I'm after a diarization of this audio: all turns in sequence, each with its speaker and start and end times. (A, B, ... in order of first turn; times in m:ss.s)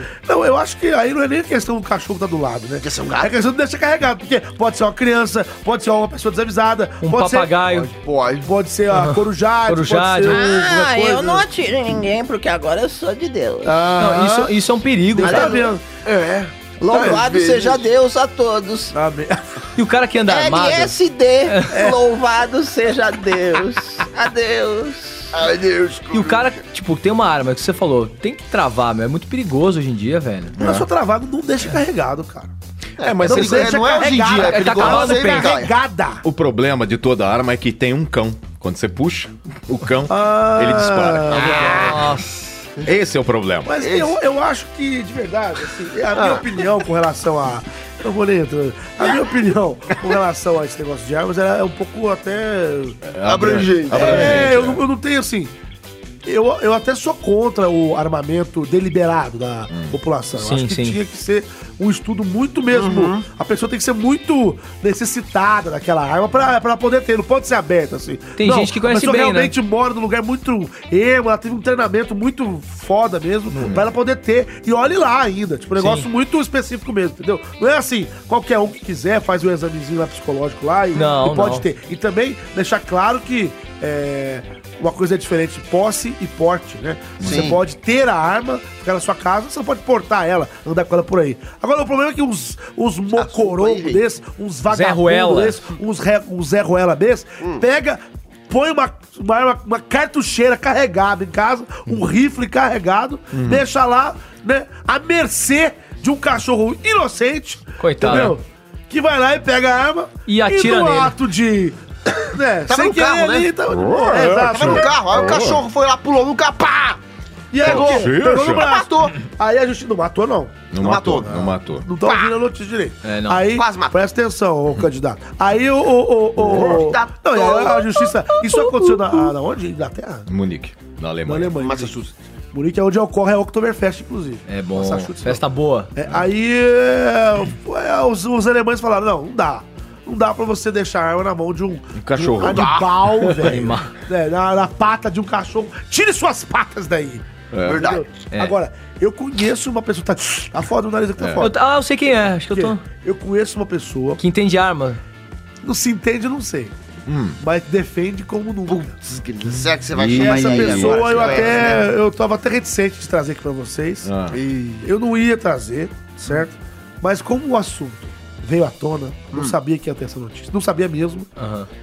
0:00.2-0:07.5 A
0:02.8-0:03.3 B
0:07.0-0:07.9 C
0:07.6-0:08.5 B
0:08.4-0:11.5 A
0:08.9-0:10.4 C
0:10.3-0:13.9 D
0:13.6-0:14.6 A
0:14.0-0:15.6 C
0:15.1-0:15.8 A
0:15.2-0:15.7 D
0:16.0-0:17.9 B
0:16.8-0:18.9 D
0:18.9-0:19.6 A
0:19.8-0:21.8 C
0:20.3-0:25.3 D
0:21.7-0:22.0 A
0:25.3-0:26.6 B
0:26.1-0:30.6 C
0:30.6-0:30.9 E
0:30.6-0:32.5 A
0:33.0-0:35.7 B
0:33.0-0:33.9 E
0:33.3-0:36.2 A
0:34.3-0:35.6 C
0:36.2-0:41.7 E
0:40.1-0:42.0 A
0:41.5-0:42.1 B
0:41.6-0:42.3 C
0:42.8-0:43.8 E
0:43.7-0:53.0 A
0:43.8-0:44.2 B
0:46.1-0:46.7 B
0:53.0-0:54.8 E
0:53.2-0:54.6 B
0:53.9-0:55.5 A
0:56.2-1:54.9 A
0:59.7-1:00.0 E
1:00.4-1:01.0 C
1:02.7-1:03.2 B
1:08.4-1:09.5 C
1:13.6-1:13.9 E
1:15.8-1:16.1 C
1:20.9-1:21.6 C
1:27.2-1:27.6 E
1:27.2-1:27.6 B
1:33.2-1:34.0 B
1:34.7-1:35.6 C
1:43.3-1:43.6 E
1:47.8-1:48.4 C
1:50.3-1:51.2 C
1:52.7-1:53.5 B
1:53.7-1:55.6 E
1:54.4-1:57.0 B
1:57.5-2:00.7 A
1:57.6-1:59.2 B
1:57.6-1:58.7 E
2:00.7-2:01.9 E
2:00.8-2:01.5 B
2:01.2-2:10.3 A
2:03.0-2:03.5 C
2:03.5-2:04.0 B
2:06.4-2:07.0 E
2:06.4-2:08.8 B
2:10.3-2:11.6 E
2:11.2-2:12.0 A
2:11.6-2:12.1 B
2:12.5-2:15.4 A
2:14.5-2:15.9 C
2:16.0-2:31.6 A
2:21.9-2:23.5 E
2:22.4-2:22.8 B
2:23.4-2:23.9 C
2:27.5-2:27.9 E
2:27.6-2:28.1 B
2:31.2-2:31.5 E
2:31.4-2:32.8 C
2:32.5-2:34.2 A
2:34.2-2:35.0 C
2:35.6-2:36.7 A
2:37.1-2:37.4 E
2:37.4-2:38.9 A
2:38.7-2:41.9 B
2:39.9-2:41.6 E
2:40.1-2:44.1 A
2:44.0-2:44.4 E
2:44.3-2:44.9 B
2:44.8-2:51.3 A
2:51.4-2:51.7 C